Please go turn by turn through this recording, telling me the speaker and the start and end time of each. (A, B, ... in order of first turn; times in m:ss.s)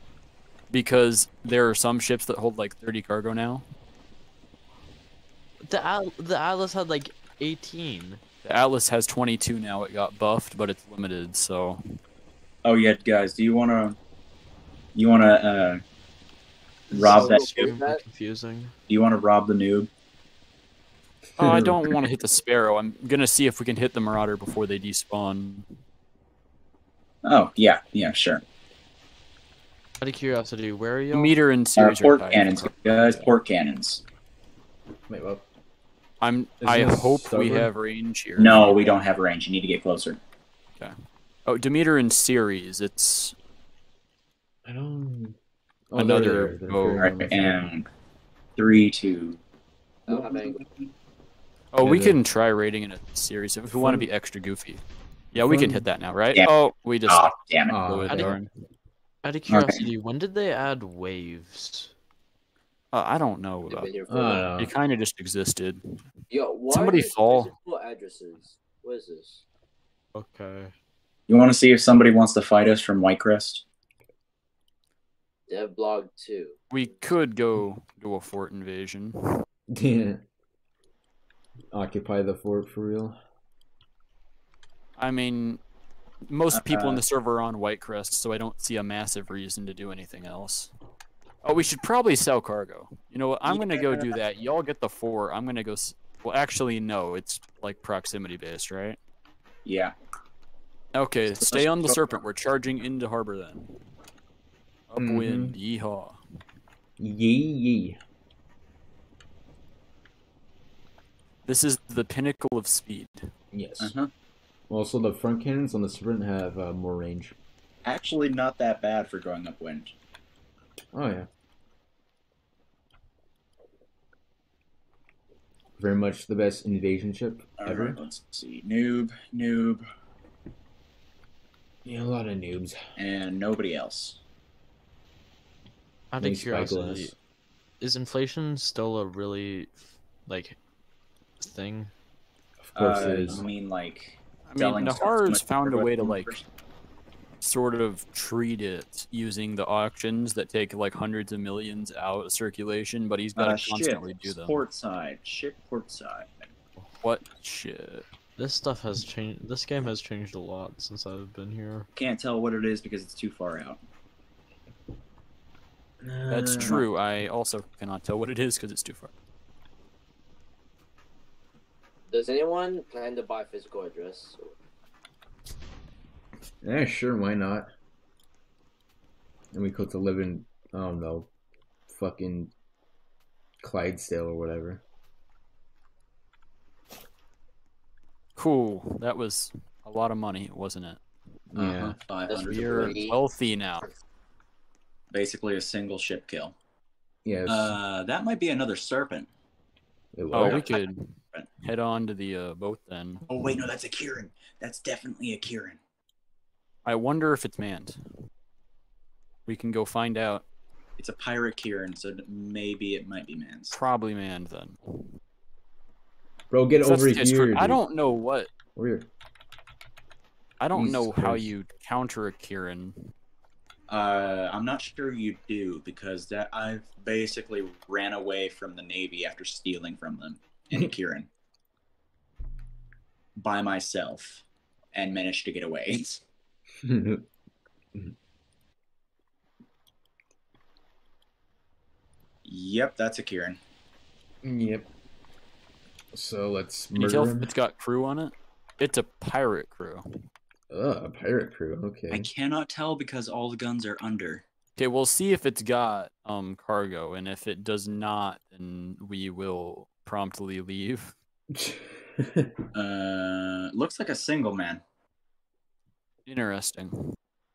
0:00.7-0:03.6 A
0:05.6-0:08.2 B
0:08.4-0:11.8 A
0:12.6-0:14.0 C
0:14.9-0:15.8 C
0:16.9-0:17.7 C
0:16.9-0:18.7 B
0:16.9-0:18.0 D
0:18.9-0:19.9 C
0:21.4-0:22.0 E
0:21.4-0:25.6 A
0:27.2-0:28.4 C
0:30.0-0:31.4 B
0:31.1-0:33.3 A
0:31.8-0:34.0 C
0:35.1-0:35.4 E
0:36.2-0:39.0 A
0:36.6-0:37.7 E
0:38.4-0:40.2 C
0:41.4-0:43.4 A
0:44.6-0:45.4 E
0:45.9-0:47.6 E
0:46.0-0:47.2 A
0:47.0-0:47.9 C
0:48.6-0:49.4 C
0:50.1-0:50.6 D
0:50.1-0:50.9 C
0:51.7-0:58.5 A
0:51.8-0:52.2 E
0:53.7-0:54.1 E
0:55.4-0:55.8 E
0:57.1-0:57.8 C
0:57.7-0:58.4 E
0:58.1-0:58.4 B
0:59.2-1:01.9 B
0:59.5-0:59.8 C
1:02.9-1:03.9 A
1:03.7-1:04.5 D
1:04.1-1:04.7 E
1:04.6-1:05.8 A
1:06.3-1:09.4 D
1:06.7-1:07.5 A
1:10.1-1:10.7 B
1:11.3-1:13.6 C
1:15.5-1:16.6 D
1:16.7-1:19.2 A
1:19.7-1:20.2 E
1:21.7-1:23.2 E
1:25.0-1:25.6 A
1:26.3-1:30.7 A
1:26.5-1:27.0 C
1:31.4-1:39.0 A
1:33.4-1:34.1 C
1:39.6-1:39.9 C
1:40.9-1:43.7 A
1:41.4-1:42.0 C
1:44.9-1:46.2 A
1:45.0-1:45.5 E
1:47.0-1:48.0 E
1:51.4-1:53.3 A
1:53.5-1:53.9 E
1:53.8-1:54.1 C
1:54.7-1:57.3 E
1:57.8-1:59.9 C
2:00.9-2:01.3 E
2:05.8-2:08.0 E
2:07.6-2:09.8 C
2:11.8-2:12.8 E
2:13.0-2:14.2 C
2:16.1-2:17.1 B
2:16.2-2:17.1 E
2:17.8-2:20.6 B
2:21.4-2:21.9 B
2:22.7-2:23.5 E
2:22.7-2:26.4 C
2:24.5-2:26.3 A
2:27.4-2:34.6 A
2:33.3-2:36.4 C
2:37.0-2:38.0 A
2:38.4-2:41.9 B
2:41.9-2:43.8 C
2:46.0-2:46.8 E
2:46.3-2:49.1 A
2:52.1-2:54.5 D
2:56.6-2:57.7 E
2:59.5-3:01.3 E
3:01.9-3:02.5 E
3:03.6-3:04.8 E
3:08.4-3:11.0 A
3:11.5-3:12.0 E
3:11.5-3:13.0 C
3:12.3-3:13.2 D
3:12.5-3:13.9 A
3:15.1-3:16.5 C
3:17.2-3:17.8 E
3:17.4-3:19.3 C
3:20.1-3:20.6 E
3:20.3-3:23.2 A
3:20.3-3:21.5 C
3:23.3-3:25.8 C
3:26.8-3:28.0 A
3:29.5-3:30.4 A
3:31.0-3:33.8 C
3:33.7-3:35.1 A
3:36.5-3:37.8 E
3:36.8-3:38.5 A
3:38.8-3:39.1 E
3:40.6-3:43.0 A
3:40.7-3:41.5 E
3:43.9-3:51.3 C
3:53.4-3:56.2 C
3:56.8-3:57.3 E
4:02.4-4:03.6 C
4:04.4-4:04.9 E
4:06.1-4:07.5 E
4:06.9-4:10.0 A
4:10.7-4:12.3 E
4:12.1-4:14.4 C
4:14.8-4:21.1 A
4:21.5-4:22.6 E
4:22.7-4:24.8 C
4:26.2-4:26.9 A